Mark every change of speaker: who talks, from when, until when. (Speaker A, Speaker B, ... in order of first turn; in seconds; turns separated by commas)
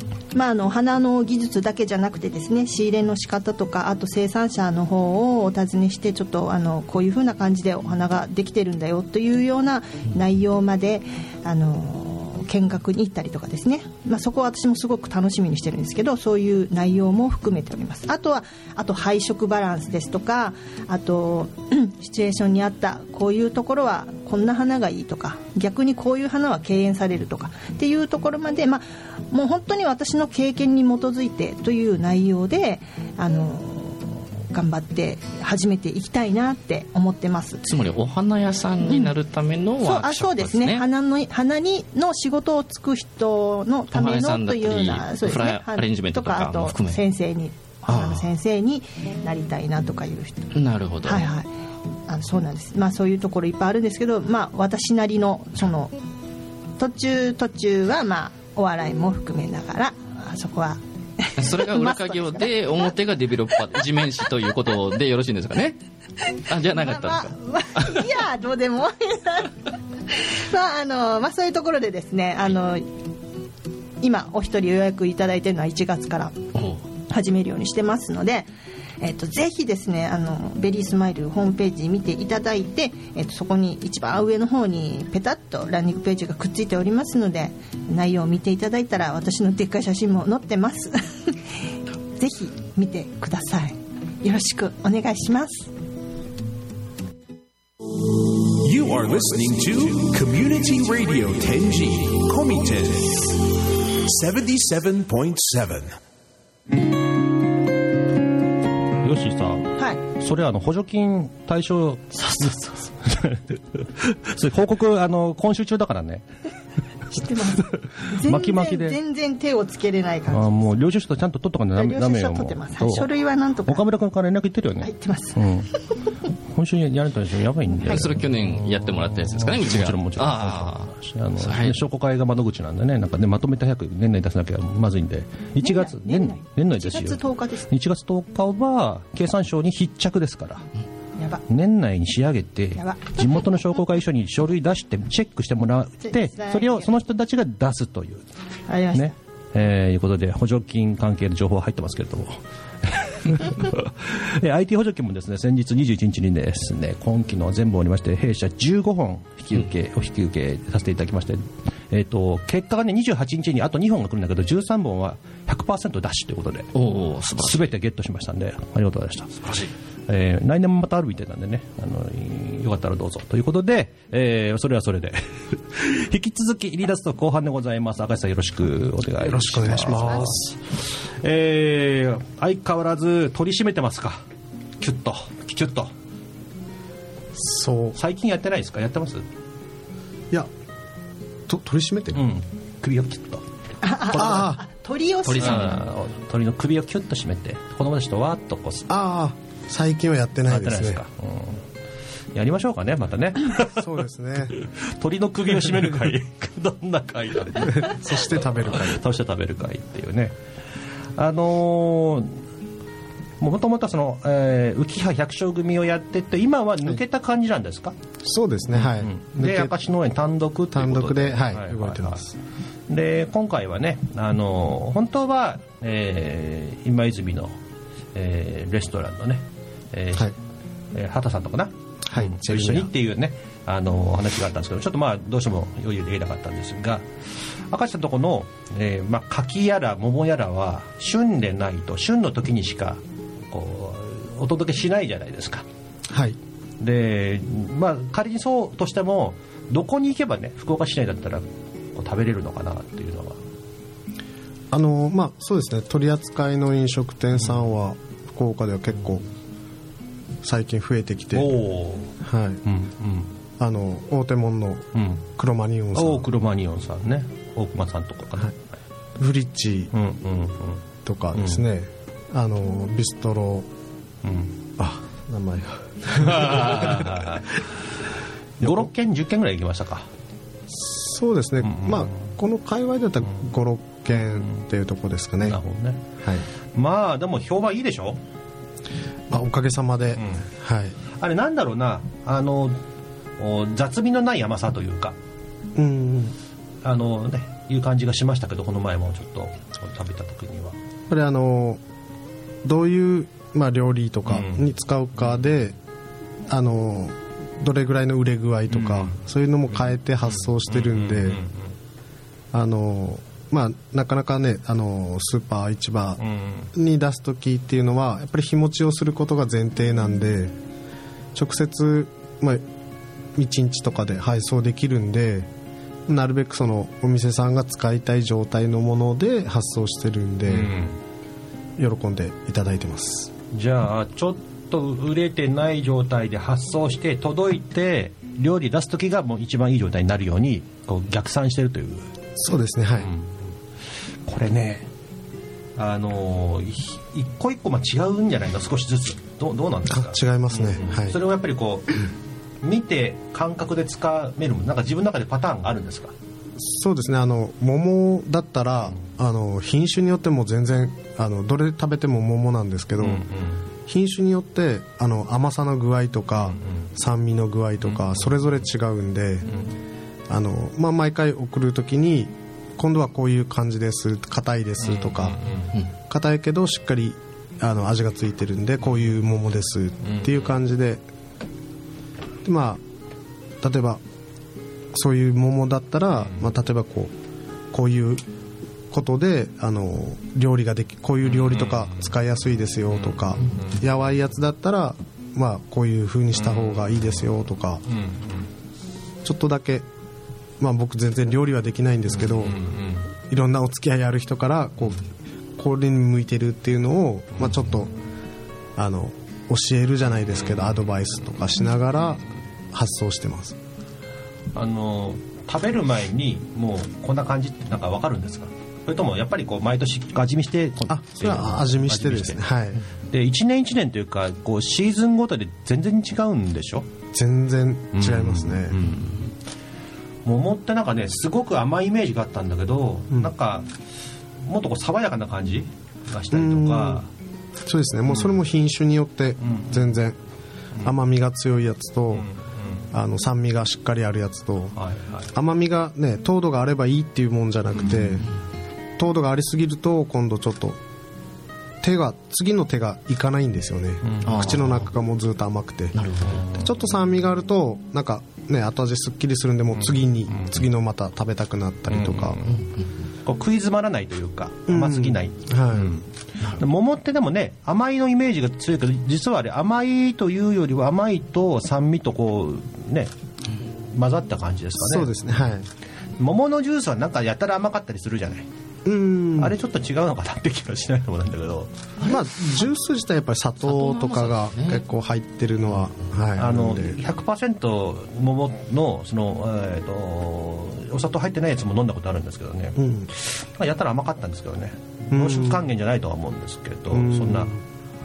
Speaker A: 0.3-37.7, Speaker B: 37.6-40.9, Speaker A: 38.8-39.1, Speaker A: 39.8-51.5, Speaker B: 43.9-47.0, Speaker B: 47.9-48.3, Speaker B: 50.5-51.3, Speaker A: 52.1-56.0, Speaker A: 56.8-62.8, Speaker B: 61.4-65.8, Speaker B: 66.3-68.1, Speaker A: 66.6-69.6, Speaker A: 70.1-72.8, Speaker A: 74.0-76.4, Speaker B: 76.5-76.8, Speaker A: 77.1-78.5, Speaker A: 79.0-91.3, Speaker A: 92.2-95.7, Speaker C: 98.5-103.4, Speaker C: 104.0-106.0, Speaker D: 109.0-116.2, Speaker A: 112.2-112.8, Speaker A: 117.1-120.6, Speaker D: 118.1-119.0, Speaker D: 120.3-123.1, Speaker A: 121.8-123.8, Speaker D: 123.7-125.7, Speaker A: 124.8-125.5, Speaker D: 126.5-140.7, Speaker B: 127.8-131.8, Speaker A: 135.6-137.7, Speaker D: 141.5-148.3, Speaker A: 142.8-143.3, Speaker A: 146.0-146.9, Speaker A: 148.7-149.2, Speaker D: 148.9-166.7, Speaker B: 166.8-167.7, Speaker D: 167.4-169.5, Speaker B: 169.4-169.7, Speaker D: 170.1-184.2, Speaker E: 179.2-180.5, Speaker D: 184.8-185.9, Speaker E: 187.3-188.0, Speaker D: 188.0-189.2, Speaker E: 191.5-192.2, Speaker D: 192.1-193.4, Speaker A: 193.8-195.8, Speaker E: 194.1-194.6, Speaker B: 195.3-195.8, Speaker D: 195.4-198.9, Speaker E: 198.9-201.0, Speaker D: 200.5-201.6, Speaker D: 202.3-203.9, Speaker E: 203.7-204.6, Speaker D: 204.6-210.4, Speaker E: 207.7-209.0, Speaker D: 211.2-212.4, Speaker D: 213.4-218.0, Speaker E: 218.2-219.8, Speaker D: 218.7-222.2, Speaker E: 220.7-222.3, Speaker D: 222.9-227.6, Speaker D: 228.1-230.3, Speaker D: 230.9-237.1, Speaker E: 232.1-232.9, Speaker D: 237.7-245.7, Speaker E: 246.1-246.4, Speaker D: 246.8-253.4, Speaker E: 254.7-259.3, Speaker E: 260.4-261.6, Speaker D: 261.3-263.3, Speaker E: 262.2-262.6, Speaker E: 263.6-266.3, Speaker D: 265.0-265.2, Speaker D: 265.9-268.6, Speaker E: 269.2-269.9, Speaker D: 269.9-270.8, Speaker E: 271.0-273.7, Speaker D: 271.4-271.6, Speaker D: 274.2-274.6, Speaker E: 274.8-277.4, Speaker D: 276.2-277.5, Speaker D: 278.6-280.1, Speaker E: 278.6-278.9, Speaker E: 280.7-285.6, Speaker D: 281.6-282.1, Speaker D: 285.4-286.1, Speaker E: 286.2-286.5, Speaker D: 286.7-288.2, Speaker E: 289.3-291.0, Speaker D: 290.2-290.4, Speaker D: 291.1-292.8, Speaker D: 293.4-295.2, Speaker E: 295.8-296.4, Speaker D: 296.8-300.8, Speaker E: 301.1-301.8, Speaker E: 302.6-305.8, Speaker D: 304.3-304.6, Speaker E: 306.5-311.4, Speaker D: 308.7-309.2, Speaker D: 310.2-311.7, Speaker E: 312.5-316.2, Speaker D: 316.2-316.7, Speaker E: 316.7-320.6, Speaker E: 321.3-322.7, Speaker E: 323.4-325.5, Speaker E: 326.1-330.7, Speaker D: 330.5-331.0, Speaker E: 331.8-333.3, Speaker D: 333.5-342.1, Speaker E: 342.4-343.1, Speaker D: 343.0-343.5, Speaker D: 344.2-344.9, Speaker D: 345.8-352.1, Speaker E: 349.9-351.2, Speaker D: 352.6-356.1, Speaker E: 356.6-363.3, Speaker D: 363.0-363.6, Speaker E: 363.9-369.5, Speaker D: 367.8-368.4, Speaker E: 370.3-375.4, Speaker D: 374.8-375.8, Speaker E: 376.1-381.1, Speaker D: 380.1-380.5, Speaker E: 382.4-382.8, Speaker E: 383.6-384.0, Speaker E: 384.9-387.1, Speaker E: 387.7-388.2, Speaker E: 388.9-397.8, Speaker D: 391.2-392.1, Speaker D: 392.9-393.9, Speaker D: 396.4-397.2, Speaker D: 397.9-398.5, Speaker E: 399.2-399.9, Speaker E: 400.6-402.6, Speaker D: 402.1-403.1, Speaker E: 403.2-407.9, Speaker E: 408.8-413.6, Speaker D: 414.5-422.4, Speaker E: 420.9-422.8, Speaker D: 423.1-426.9, Speaker E: 427.1-428.8, Speaker D: 427.9-429.3, Speaker D: 430.2-433.7, Speaker D: 434.4-437.1, Speaker E: 436.3-437.1, Speaker E: 437.6-440.2, Speaker D: 439.4-439.9, Speaker E: 440.8-442.3, Speaker D: 442.1-442.9, Speaker E: 442.9-444.8, Speaker D: 444.8-445.3, Speaker E: 445.3-448.3, Speaker E: 449.0-450.8, Speaker E: 451.8-456.0, Speaker D: 454.0-454.7, Speaker B: 454.2-454.8, Speaker B: 455.9-456.5, Speaker D: 456.3-456.7, Speaker E: 456.5-462.4, Speaker D: 459.8-460.6, Speaker D: 461.9-462.6, Speaker B: 462.5-462.9, Speaker D: 463.2-475.1, Speaker E: 464.7-466.0, Speaker E: 474.8-475.7, Speaker D: 476.2-478.5, Speaker E: 478.9-479.6, Speaker D: 479.4-481.8, Speaker B: 482.0-482.6, Speaker E: 482.0-487.0, Speaker B: 483.6-484.9, Speaker D: 486.4-497.5, Speaker E: 492.8-493.1, Speaker E: 495.1-495.7, Speaker E: 496.9-497.6